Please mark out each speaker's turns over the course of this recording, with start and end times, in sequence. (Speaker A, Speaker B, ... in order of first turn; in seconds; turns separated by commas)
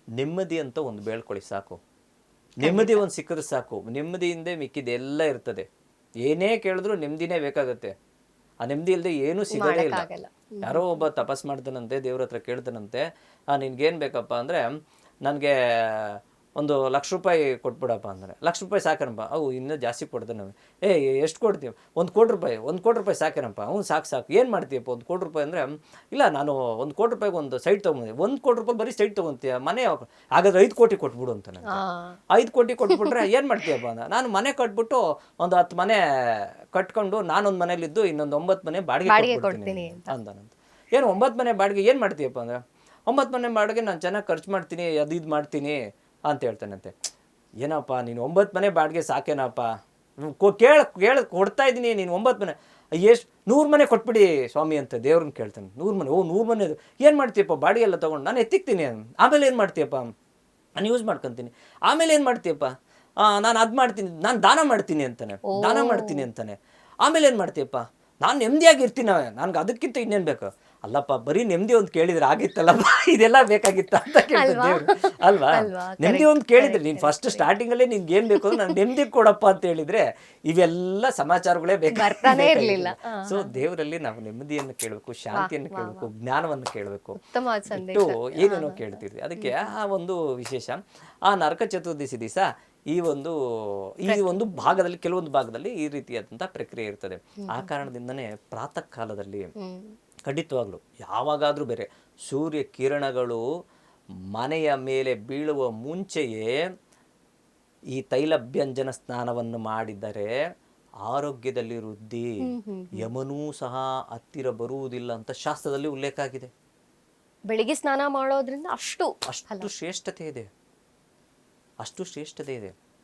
Speaker A: 0.2-1.8, Speaker A: 2.6-5.7, Speaker B: 2.6-3.0, Speaker A: 6.2-7.9, Speaker A: 8.6-10.1, Speaker B: 9.5-10.9, Speaker A: 10.6-13.0, Speaker A: 13.5-14.7, Speaker A: 15.2-46.9, Speaker B: 31.7-32.2, Speaker B: 32.9-33.2, Speaker B: 39.0-40.1, Speaker A: 47.6-49.7, Speaker A: 50.2-60.1, Speaker A: 60.8-62.7, Speaker A: 63.2-99.5, Speaker B: 65.5-66.2, Speaker B: 74.3-77.5, Speaker B: 78.4-78.7, Speaker B: 81.9-83.6, Speaker B: 85.3-86.1, Speaker B: 87.2-89.7, Speaker B: 94.1-94.8, Speaker B: 97.4-97.8, Speaker B: 99.6-100.0, Speaker A: 100.2-103.4, Speaker A: 104.3-106.6, Speaker A: 107.9-110.3, Speaker A: 111.1-112.4, Speaker B: 112.4-113.1, Speaker A: 112.9-116.5, Speaker B: 117.5-119.7, Speaker A: 119.3-120.5, Speaker A: 121.8-122.7